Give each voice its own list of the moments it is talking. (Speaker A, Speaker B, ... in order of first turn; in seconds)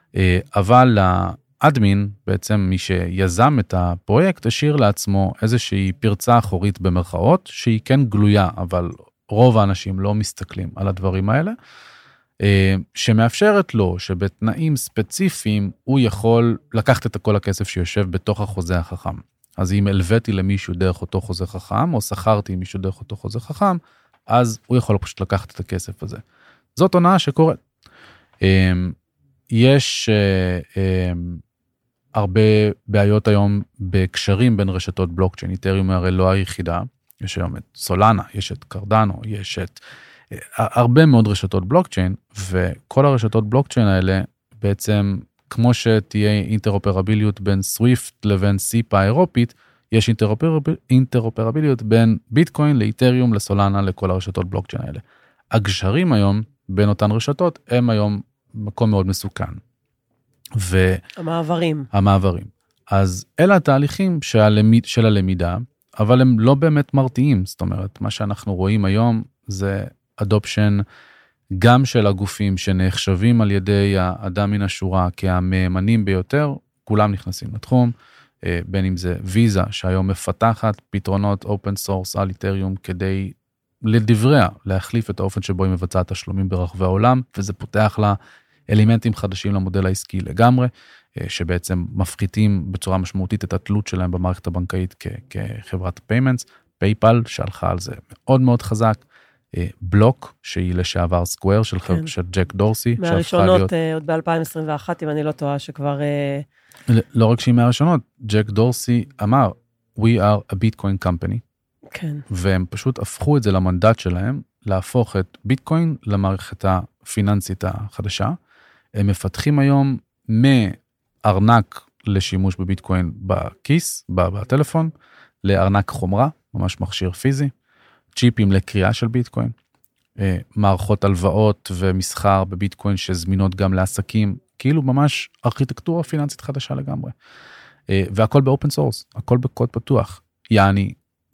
Speaker A: 0.1-11.6, 12.4-26.2, 26.8-27.6, 28.4-28.9, 29.5-31.4, 32.1-39.8, 40.3-59.6, 60.6-61.0, 61.9-70.8, 71.6-88.2, 88.7-99.0, 99.5-103.7, 106.9-111.4, 112.3-118.4, 119.0-124.9, 125.4-127.5, 128.2-129.5, 130.2-137.1, 137.9-141.0
Speaker B: 61.2-61.9, 103.0-106.5, 111.9-112.2